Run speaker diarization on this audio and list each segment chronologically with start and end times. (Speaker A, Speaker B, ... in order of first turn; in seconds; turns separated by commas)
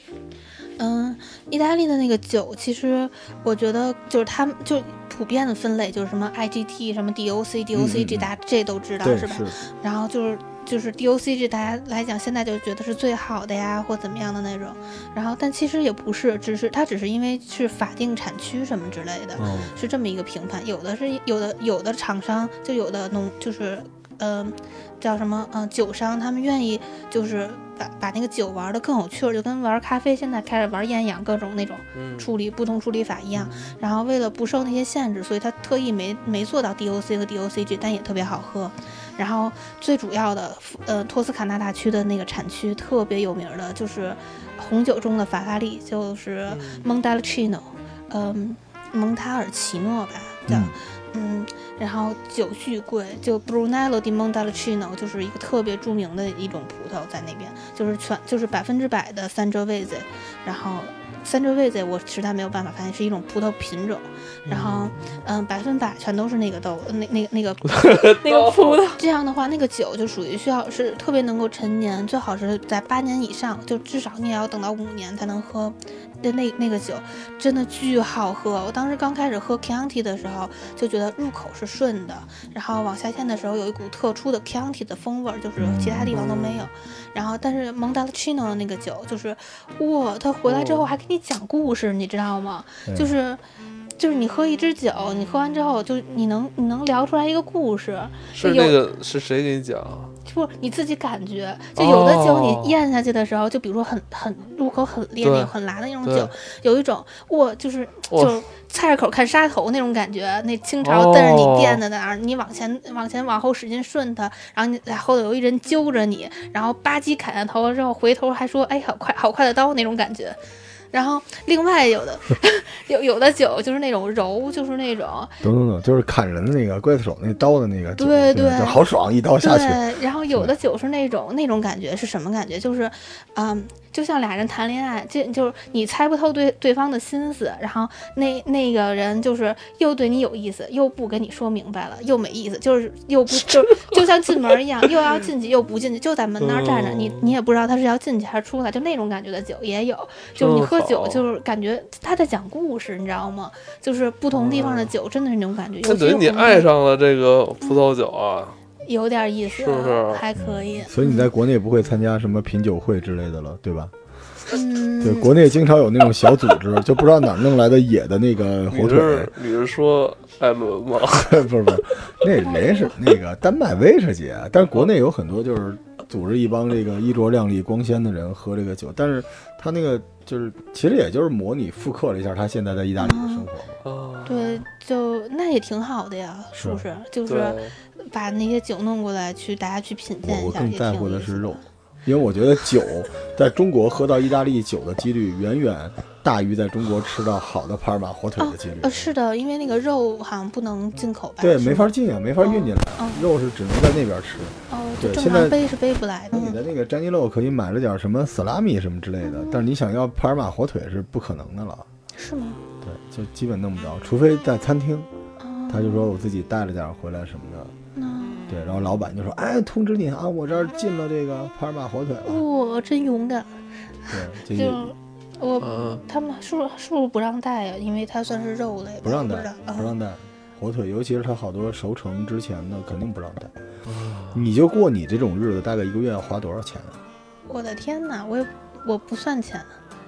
Speaker A: 0.8-93.4, Speaker B: 7.8-8.3, Speaker B: 9.0-9.6, Speaker B: 19.4-19.8, Speaker C: 31.9-32.3, Speaker C: 33.4-33.7, Speaker C: 46.5-46.9, Speaker B: 50.5-50.7, Speaker C: 64.5-65.0, Speaker C: 67.7-68.8, Speaker B: 85.6-86.2, Speaker C: 86.1-86.7, Speaker C: 90.5-90.9, Speaker B: 92.9-93.1, Speaker A: 94.0-98.8, Speaker C: 98.3-100.1, Speaker A: 100.2-120.4, Speaker C: 101.8-102.8, Speaker C: 105.2-106.3, Speaker C: 108.1-108.4, Speaker C: 110.8-111.8, Speaker A: 120.9-125.4, Speaker B: 125.4-130.5, Speaker A: 128.0-128.8, Speaker A: 129.4-156.7, Speaker C: 146.4-147.4, Speaker C: 150.4-151.2, Speaker C: 154.3-154.9, Speaker C: 155.8-158.6, Speaker A: 158.8-161.3, Speaker C: 159.5-160.2, Speaker B: 160.4-163.9, Speaker A: 164.5-165.3, Speaker B: 165.0-169.3, Speaker C: 168.7-171.5, Speaker B: 171.1-183.8, Speaker A: 172.4-172.9, Speaker A: 183.0-183.5, Speaker C: 183.8-184.7, Speaker A: 184.3-191.6, Speaker B: 186.6-186.8, Speaker C: 187.3-187.8, Speaker B: 190.2-199.1, Speaker A: 198.4-203.2, Speaker B: 201.4-205.6, Speaker A: 204.7-206.6, Speaker B: 206.3-211.9, Speaker A: 209.2-209.7, Speaker A: 212.2-212.6, Speaker B: 212.8-215.1, Speaker A: 215.4-216.1, Speaker B: 215.7-217.7, Speaker A: 218.0-218.5, Speaker B: 218.5-222.4, Speaker A: 222.2-223.5, Speaker A: 224.1-229.9, Speaker B: 224.1-224.9, Speaker C: 225.6-226.0, Speaker B: 229.0-233.5, Speaker C: 233.9-234.5, Speaker B: 234.3-237.0, Speaker A: 237.5-239.7